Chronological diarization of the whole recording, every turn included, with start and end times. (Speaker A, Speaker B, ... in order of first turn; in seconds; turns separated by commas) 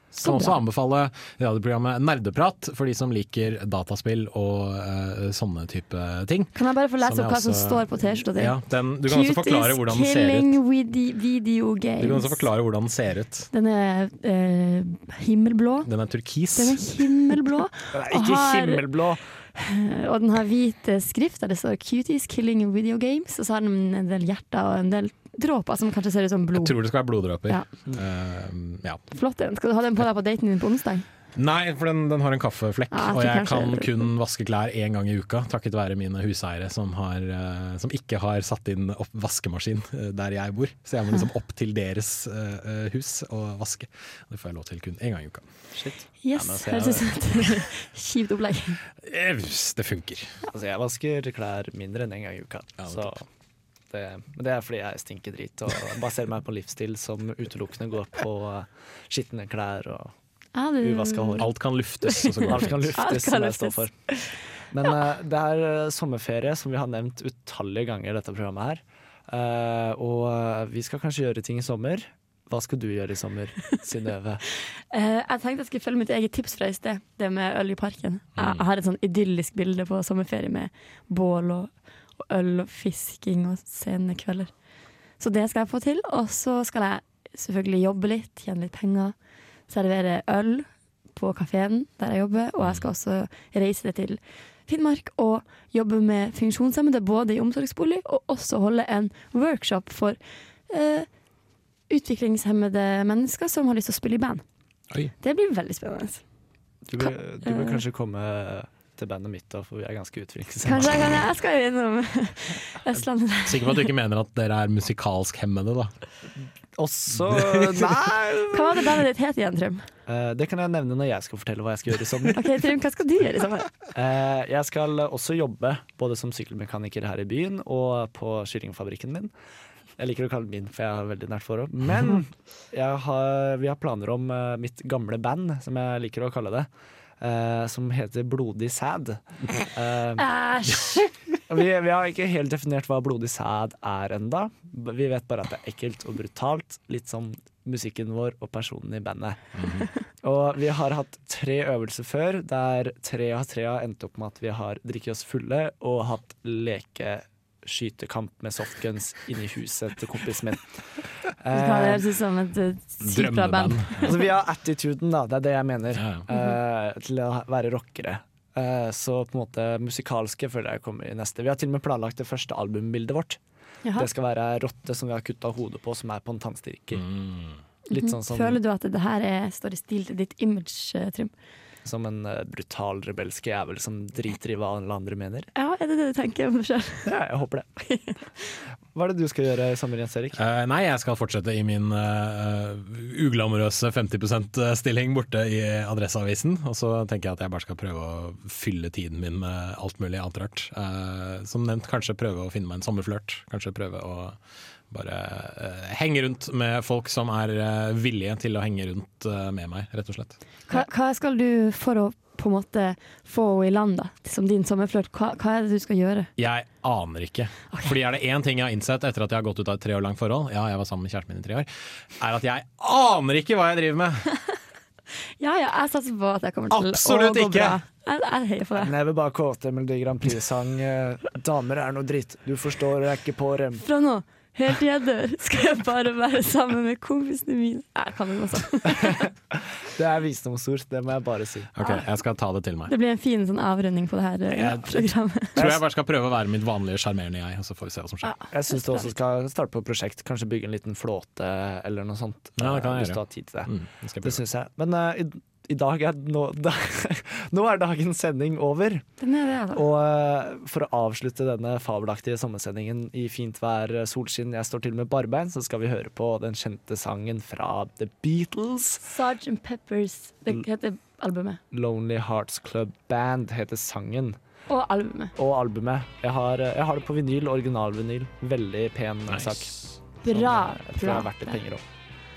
Speaker A: 0.1-10.6, Speaker B: 0.2-0.6, Speaker B: 6.5-12.4, Speaker A: 12.0-13.5, Speaker B: 13.5-15.9, Speaker A: 15.9-16.9, Speaker B: 16.6-18.9, Speaker C: 17.9-19.2, Speaker B: 19.6-26.8, Speaker A: 26.6-29.0, Speaker B: 29.1-31.1, Speaker A: 31.4-45.5, Speaker B: 32.9-33.9, Speaker C: 45.7-47.2, Speaker B: 46.2-48.8, Speaker A: 49.0-50.4, Speaker C: 50.5-53.3, Speaker A: 52.8-53.1, Speaker C: 53.9-60.1, Speaker B: 60.5-61.5, Speaker C: 60.8-61.5, Speaker A: 61.4-63.0, Speaker B: 62.1-64.4, Speaker C: 62.5-63.9, Speaker C: 64.7-74.4, Speaker B: 74.9-84.5, Speaker A: 78.4-78.6, Speaker B: 85.2-89.2, Speaker B: 89.7-100.2, Speaker B: 100.7-101.1, Speaker B: 101.9-104.4, Speaker B: 105.2-106.2, Speaker C: 106.8-111.1, Speaker B: 107.0-107.8, Speaker B: 110.6-113.9, Speaker A: 113.5-115.9, Speaker C: 116.8-119.0, Speaker A: 117.2-117.9, Speaker B: 118.5-119.9, Speaker C: 120.1-122.6, Speaker B: 122.3-123.7, Speaker C: 123.9-129.3, Speaker C: 130.0-136.7, Speaker C: 137.2-140.3, Speaker B: 140.2-141.1, Speaker C: 141.5-149.4, Speaker A: 149.6-149.9, Speaker C: 150.2-162.1, Speaker B: 161.5-164.2, Speaker A: 163.0-164.2, Speaker C: 164.0-173.4, Speaker A: 166.0-166.2, Speaker C: 173.9-177.1, Speaker A: 177.0-177.6, Speaker C: 177.9-178.6, Speaker B: 177.9-181.3, Speaker C: 181.8-185.5, Speaker B: 185.6-187.1, Speaker C: 187.0-187.7, Speaker B: 187.8-188.2, Speaker C: 188.9-190.4, Speaker A: 190.4-204.4, Speaker A: 204.9-210.4, Speaker B: 210.7-216.3, Speaker A: 216.4-224.3, Speaker B: 225.4-228.9, Speaker A: 226.7-227.8, Speaker C: 228.8-233.8, Speaker B: 233.8-239.3, Speaker C: 239.5-241.7, Speaker A: 241.7-242.9, Speaker B: 242.9-245.6, Speaker A: 244.6-245.0, Speaker A: 245.6-248.4, Speaker C: 245.6-245.8, Speaker B: 248.2-249.1, Speaker C: 248.5-259.1, Speaker A: 252.6-254.4, Speaker B: 259.2-259.8, Speaker C: 259.7-269.1, Speaker B: 269.0-271.6, Speaker C: 271.7-274.4, Speaker B: 274.7-275.4, Speaker C: 275.4-281.8, Speaker A: 279.3-279.8, Speaker B: 280.2-281.5